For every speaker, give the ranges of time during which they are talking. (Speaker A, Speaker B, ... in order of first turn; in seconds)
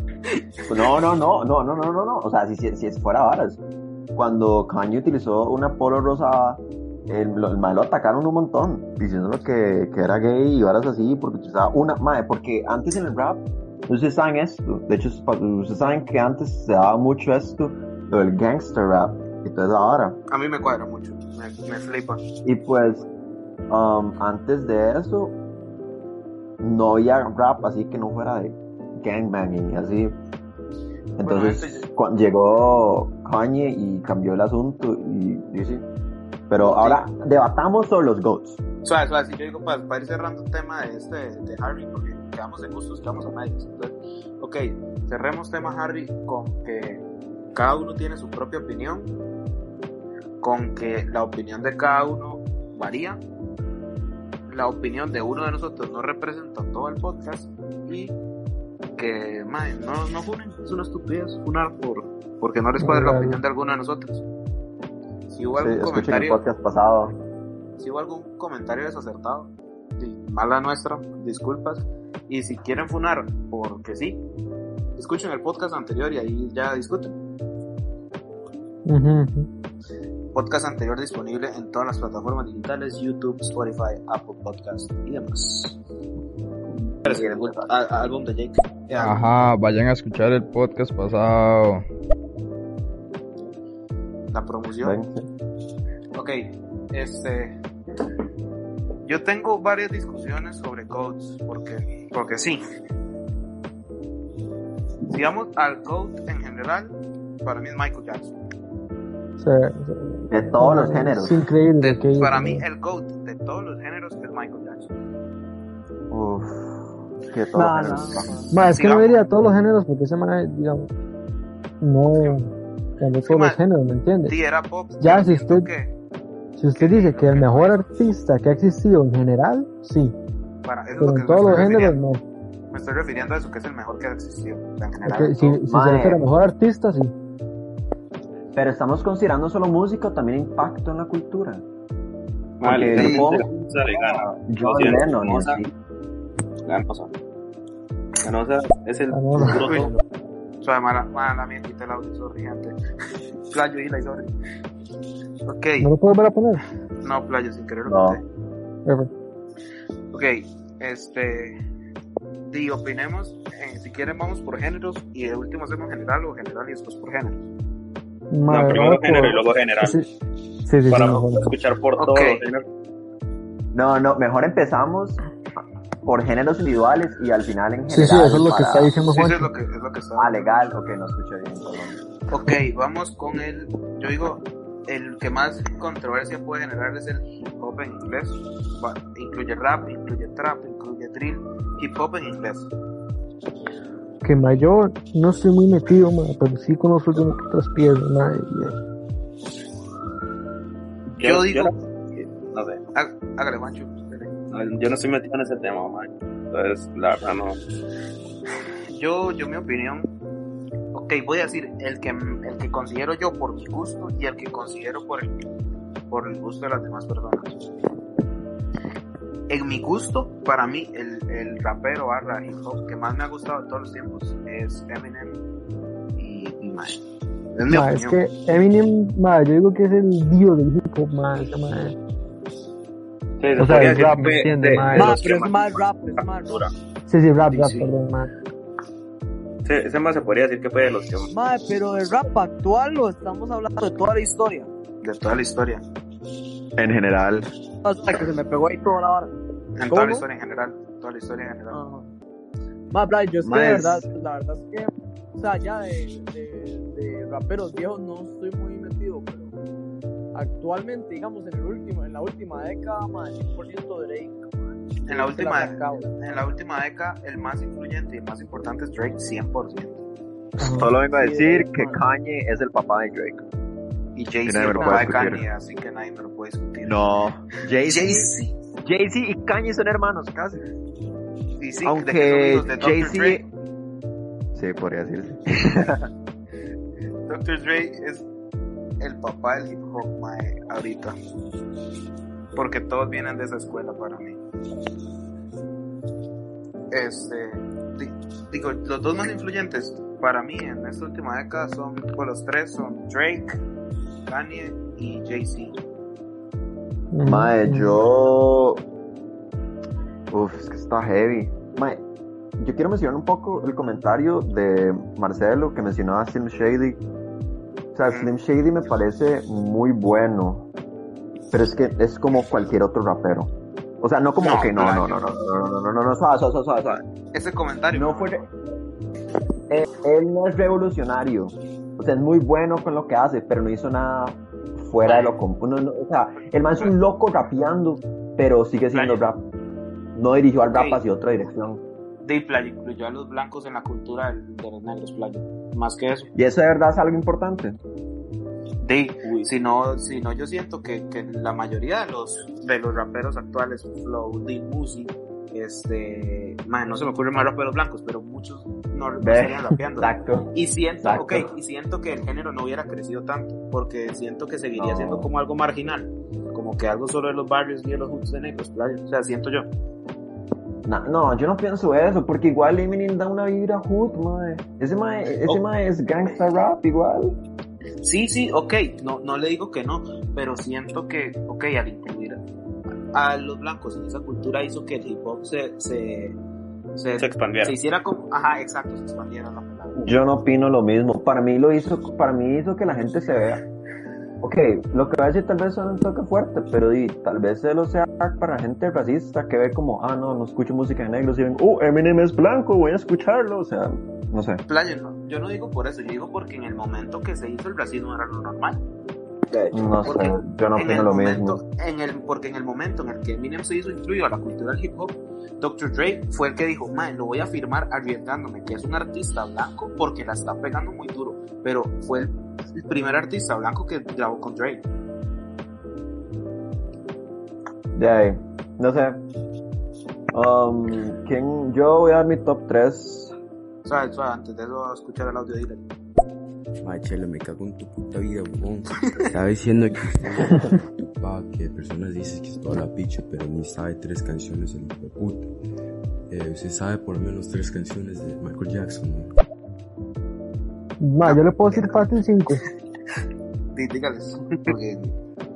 Speaker A: 0.7-3.6, 4.1-20.2, 22.4-23.1, 23.7-25.4, 26.6-30.2, 31.2-35.8, 36.5-38.6, 65.5-67.2, 87.0-87.7, 94.8-95.3, 110.3-111.4, 116.1-118.5, 135.7-136.2, 138.5-141.6, 142.6-145.7, 157.8-158.2, 173.7-178.9, 180.2-182.0, 246.8-247.5, 253.4-254.1, 270.6-273.4, 274.4-275.4, 276.8-278.3, 278.8-280.6, 281.8-283.4, 284.5-286.1, 307.2-308.8, 310.3-312.0, 312.6-317.0, 317.9-320.7, 321.5-327.0, 327.9-328.4, 329.7-339.4, 340.1-341.8, 346.3-347.8, 359.2-361.5, 364.8-365.3, 370.8-377.4, 390.0-393.6, 394.4-404.6, 409.7-411.6, 427.9-429.2, 430.3-433.3
Speaker B: 20.3-22.2, 31.2-31.9, 36.6-37.0, 38.8-47.0, 47.5-49.1, 50.4-53.2, 54.5-58.2, 59.0-64.2, 65.3-66.4, 67.8-74.2, 75.0-77.1, 80.3-85.8, 87.0-89.2, 94.3-95.0, 96.1-97.5, 99.0-102.6, 105.1-108.3, 111.8-114.9, 118.5-119.2, 123.2-123.6, 124.2-125.9, 126.8-127.8, 130.6-132.0, 132.7-135.6, 142.9-143.4, 149.6-149.9, 150.6-152.7, 153.5-154.3, 155.4-155.9, 157.0-158.2, 160.1-161.5, 162.4-167.4, 172.0-172.4, 179.1-180.4, 182.3-192.7, 201.2-201.7, 202.9-204.3, 208.9-210.1, 210.9-215.3, 216.1-217.6, 219.5-225.4, 226.2-227.0, 227.5-228.2, 237.5-237.9, 245.0-245.8, 249.8-251.8, 265.1-270.0, 274.1-277.0, 277.8-278.5, 281.6-283.4, 287.3-288.2, 289.0-291.1, 292.5-294.4, 296.9-303.5, 304.3-305.8, 324.4-325.3, 327.3-328.5, 335.0-335.3, 338.9-339.2, 340.7-341.0, 342.2-346.3, 348.8-369.7, 378.0-382.4, 383.1-386.4, 386.9-390.0, 404.7-408.8, 410.0-424.8, 433.8-435.8, 451.2-452.0, 453.7-455.1
Speaker C: 62.8-63.4, 78.8-79.5, 109.4-112.6, 118.5-120.9, 121.8-124.3, 125.0-125.7, 126.6-130.1, 131.0-132.2, 135.1-137.1, 149.1-149.6, 155.8-156.6, 168.3-170.1, 170.6-171.5, 177.9-179.5, 194.2-198.8, 227.7-231.9, 233.6-235.2, 237.1-238.3, 270.6-270.9, 307.1-307.9, 451.0-452.6
Speaker D: 89.0-91.8
Speaker E: 117.5-118.5, 234.9-236.6, 241.3-244.7, 247.8-249.3, 249.9-250.2, 251.7-252.1, 252.9-259.5, 260.3-266.5, 271.1-272.0
Speaker F: 142.6-145.6, 146.6-147.1, 148.2-149.9, 168.5-170.0, 170.9-172.6, 201.1-202.8, 204.5-207.6, 233.4-236.7, 239.6-241.3, 387.2-387.7
Speaker G: 436.8-445.5, 446.3-449.3